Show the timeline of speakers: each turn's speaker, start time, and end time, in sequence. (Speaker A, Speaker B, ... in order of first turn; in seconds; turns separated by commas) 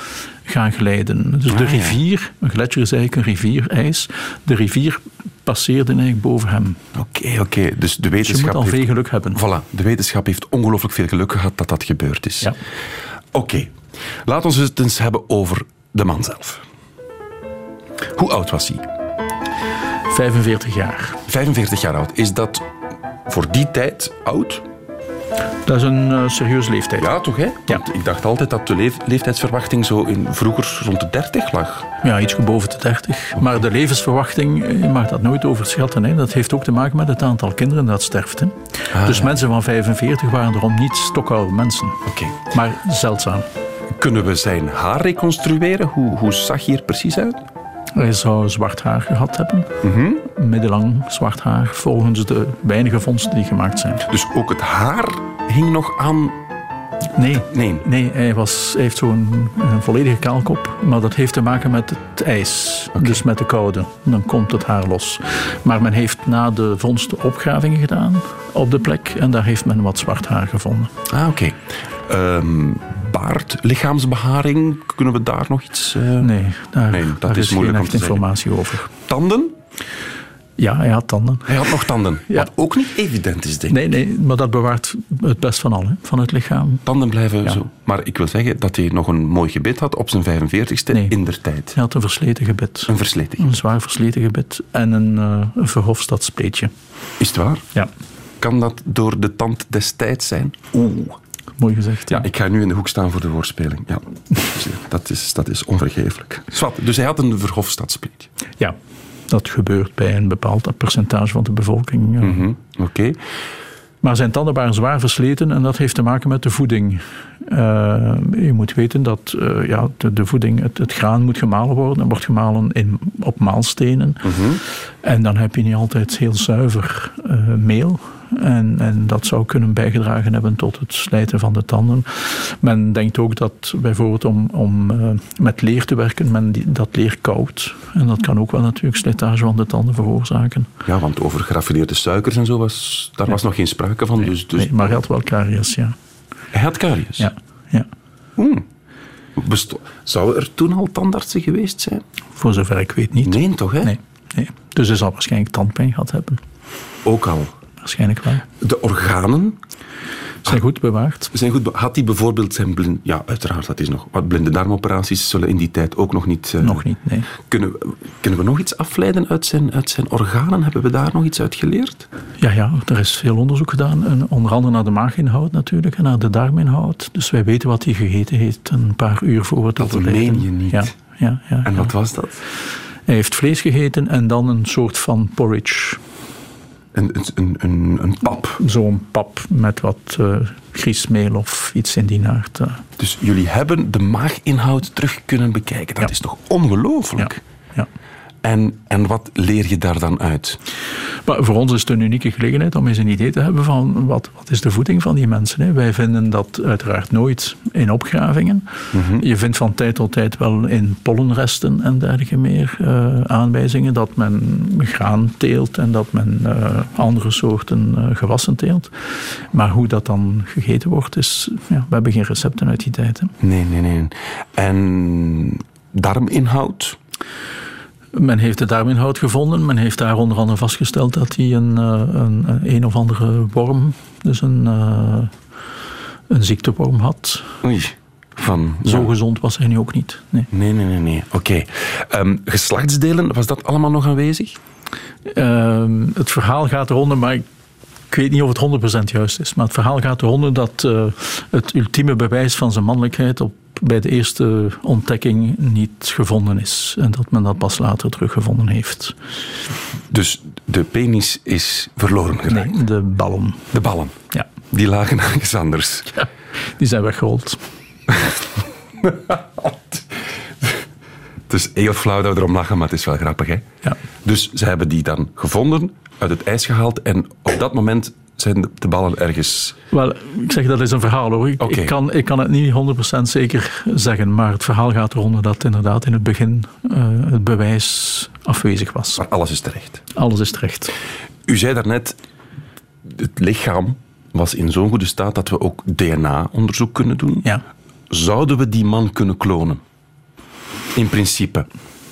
Speaker A: 0.5-6.8, Speaker B: 1.5-2.0, Speaker B: 7.0-12.6, Speaker A: 8.2-9.4, Speaker B: 13.3-16.6, Speaker B: 18.1-18.9, Speaker A: 20.1-21.2, Speaker B: 21.3-22.7, Speaker B: 23.3-24.7, Speaker A: 25.7-27.1, Speaker B: 27.0-31.9, Speaker A: 32.0-43.5, Speaker B: 38.9-39.3, Speaker B: 42.1-42.4, Speaker B: 43.9-47.4, Speaker A: 48.0-54.1, Speaker B: 49.8-50.2, Speaker B: 54.1-56.4, Speaker A: 57.2-70.9, Speaker B: 57.5-57.9, Speaker B: 63.0-63.2, Speaker B: 71.1-76.3, Speaker A: 76.2-78.9, Speaker B: 76.9-78.3, Speaker B: 79.0-79.6, Speaker A: 80.6-81.5, Speaker B: 81.5-83.8, Speaker A: 83.7-86.8, Speaker B: 86.8-91.8, Speaker A: 91.7-96.7, Speaker B: 92.9-93.5, Speaker B: 97.2-97.7, Speaker B: 98.4-101.2, Speaker A: 101.6-102.3, Speaker B: 102.1-108.3, Speaker A: 109.3-112.5, Speaker B: 112.2-113.2, Speaker A: 114.0-124.2, Speaker B: 124.2-124.6, Speaker A: 125.0-140.7, Speaker B: 140.8-145.0, Speaker A: 144.4-145.9, Speaker B: 146.5-147.3, Speaker A: 147.2-147.9, Speaker B: 148.4-148.7, Speaker B: 149.4-152.0, Speaker A: 152.4-156.4, Speaker B: 153.2-153.9, Speaker B: 157.1-157.5, Speaker A: 157.8-158.4, Speaker B: 158.6-159.6, Speaker A: 160.4-161.3, Speaker B: 161.3-172.1, Speaker A: 166.6-167.3, Speaker A: 172.4-181.9, Speaker B: 179.8-180.9, Speaker B: 181.6-182.4, Speaker A: 183.1-186.0, Speaker B: 186.9-188.6, Speaker A: 188.6-192.8, Speaker B: 193.0-197.4, Speaker A: 197.2-197.9, Speaker B: 198.4-200.6, Speaker A: 201.3-218.9, Speaker B: 208.9-209.2, Speaker A: 219.5-223.3, Speaker B: 223.4-227.0, Speaker A: 228.1-235.3, Speaker A: 236.3-237.5, Speaker B: 237.6-239.1, Speaker A: 238.8-240.5, Speaker B: 240.5-244.6, Speaker A: 245.3-247.4, Speaker A: 248.1-259.1, Speaker B: 260.1-262.8, Speaker A: 262.5-263.7, Speaker B: 263.7-266.2, Speaker A: 266.8-267.6, Speaker B: 269.0-270.8, Speaker B: 271.5-273.7, Speaker B: 274.2-279.8, Speaker A: 279.9-289.2, Speaker B: 281.6-281.9, Speaker B: 289.2-290.0, Speaker A: 290.1-290.9, Speaker B: 291.5-292.2, Speaker B: 293.1-297.5, Speaker B: 298.1-299.8, Speaker B: 300.9-301.7